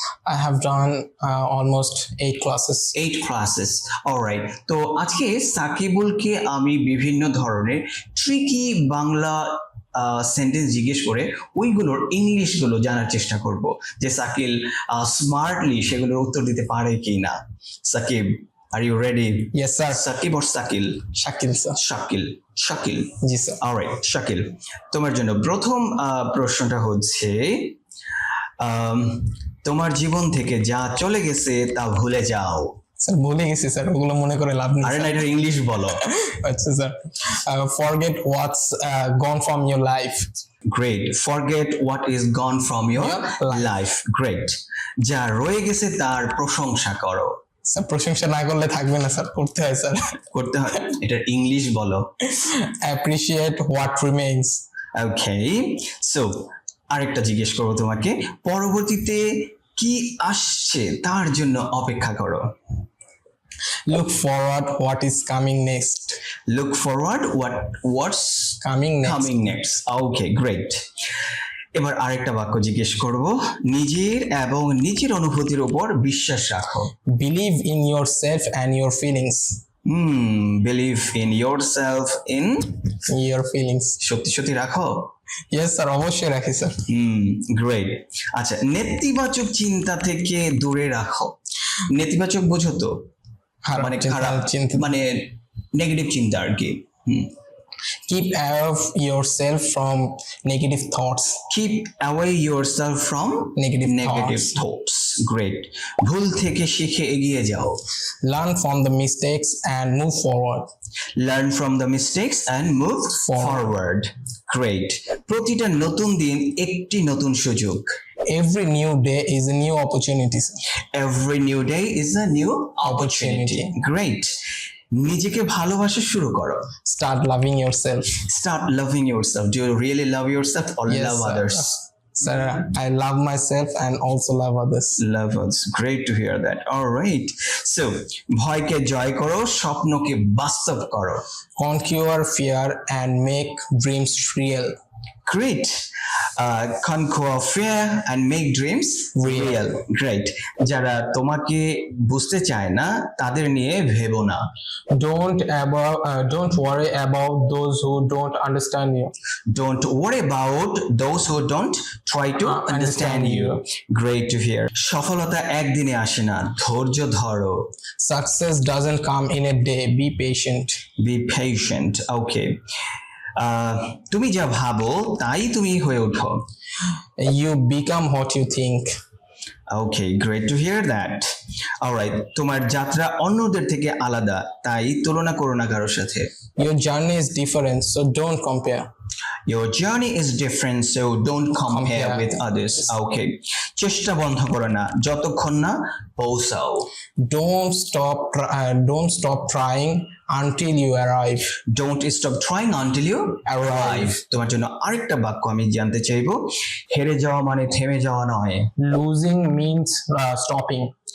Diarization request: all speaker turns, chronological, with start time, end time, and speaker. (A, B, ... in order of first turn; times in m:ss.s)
0:00.2-0:02.9 A
0:02.9-0:21.1 B
0:19.5-0:20.0 A
0:21.2-0:21.8 A
0:21.7-0:27.8 B
0:23.2-0:23.6 A
0:28.6-0:32.8 B
0:33.0-0:35.3 A
0:34.8-0:36.0 B
0:35.9-0:40.3 A
0:40.7-0:47.4 B
0:43.0-0:43.7 A
0:47.7-0:50.2 A
0:50.3-0:52.1 B
0:52.4-0:54.6 A
0:54.9-1:02.5 B
1:03.9-1:06.2 A
1:06.5-1:10.8 B
1:08.6-1:09.3 A
1:11.7-1:16.9 B
1:17.1-1:19.6 A
1:19.8-1:22.8 B
1:23.1-1:24.0 A
1:24.0-1:25.1 B
1:25.5-1:26.8 A
1:26.9-1:31.4 B
1:31.9-1:33.0 B
1:33.6-1:34.9 A
1:33.8-1:37.3 B
1:38.1-1:41.4 A
1:41.5-1:47.8 B
1:43.6-1:44.6 A
1:48.2-1:50.7 A
1:51.2-1:57.9 B
1:53.2-1:53.7 A
1:58.3-2:00.6 A
2:00.9-2:04.3 B
2:02.8-2:03.8 A
2:04.9-2:06.7 B
2:06.8-2:08.2 A
2:08.3-2:11.8 B
2:10.9-2:15.0 A
2:15.0-2:21.2 B
2:21.6-2:24.7 A
2:25.2-2:25.8 B
2:26.4-2:34.5 B
2:29.2-2:29.6 A
2:34.9-2:39.1 A
2:39.5-2:47.7 B
2:42.4-2:43.6 A
2:48.0-2:50.8 A
2:51.0-2:52.6 B
2:53.4-2:56.4 B
2:57.2-2:58.9 A
2:59.7-3:01.3 B
3:01.8-3:06.3 B
3:06.6-3:08.9 A
3:09.5-3:16.9 B
3:11.6-3:12.4 A
3:17.2-3:21.5 A
3:21.7-3:28.7 B
3:23.4-3:24.2 A
3:28.8-3:30.9 A